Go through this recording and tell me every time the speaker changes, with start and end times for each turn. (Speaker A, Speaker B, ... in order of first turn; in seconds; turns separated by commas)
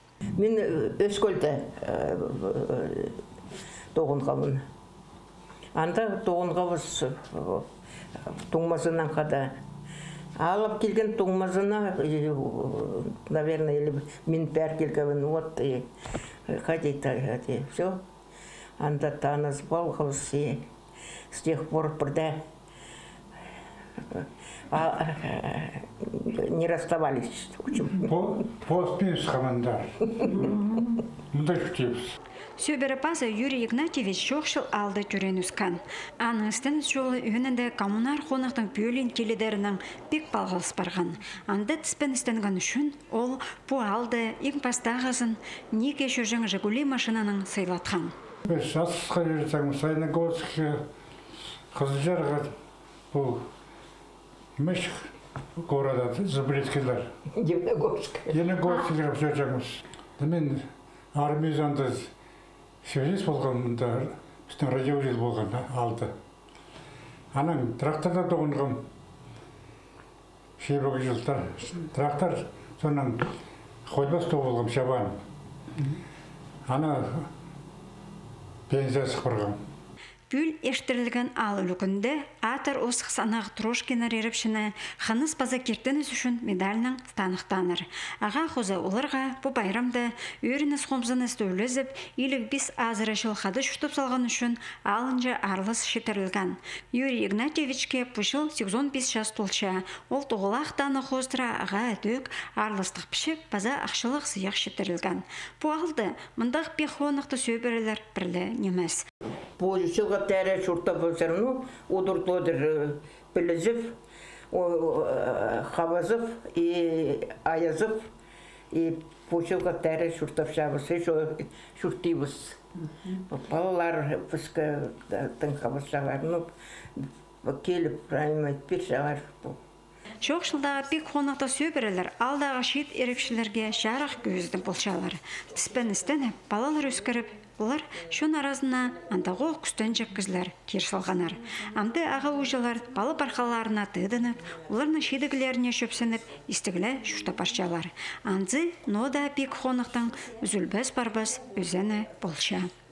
Speaker A: 0.3-3.2, Speaker A: 3.9-4.6, Speaker A: 5.7-7.7, Speaker A: 8.3-9.5, Speaker A: 10.4-15.9, Speaker A: 16.5-18.0, Speaker A: 18.8-20.6, Speaker A: 21.3-22.4, Speaker A: 24.1-28.1, Speaker B: 28.0-32.1, Speaker C: 32.6-48.1, Speaker B: 48.5-50.8, Speaker B: 51.7-52.5, Speaker B: 53.1-53.5, Speaker B: 54.6-57.0, Speaker A: 57.3-58.7, Speaker B: 58.3-62.1, Speaker B: 62.8-66.1, Speaker B: 67.3-68.8, Speaker B: 70.6-73.2, Speaker B: 73.8-75.2, Speaker B: 76.7-77.3, Speaker B: 78.7-79.6, Speaker C: 80.3-109.0, Speaker A: 109.6-114.0, Speaker A: 114.5-118.1, Speaker A: 118.7-129.6, Speaker C: 130.2-152.7